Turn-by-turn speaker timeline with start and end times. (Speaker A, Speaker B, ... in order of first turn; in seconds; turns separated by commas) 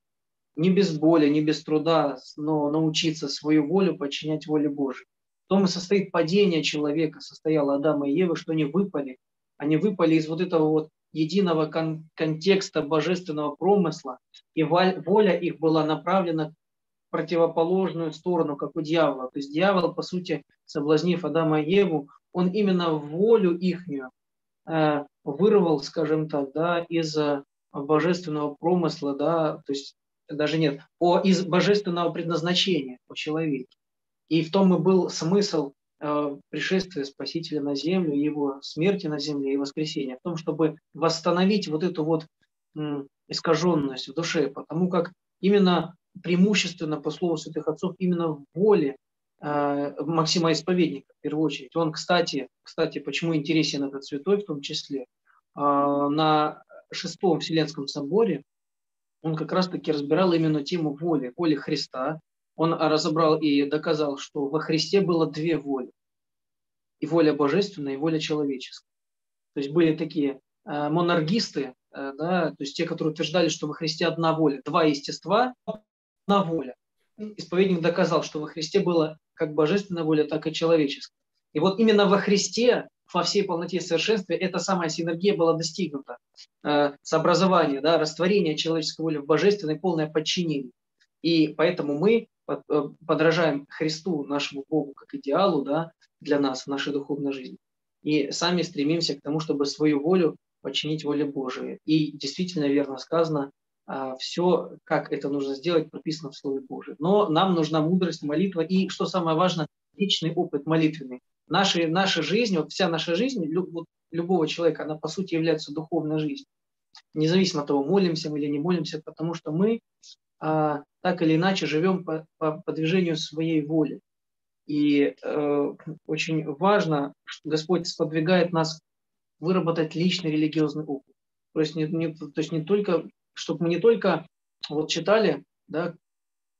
Speaker A: 0.6-16.5, Speaker A: 17.1-24.1, Speaker A: 24.7-33.7, Speaker A: 34.3-58.4, Speaker A: 59.2-65.9, Speaker A: 67.0-68.8, Speaker A: 69.5-116.5, Speaker A: 117.1-119.8, Speaker A: 120.4-124.0, Speaker A: 124.7-128.8, Speaker A: 129.4-135.9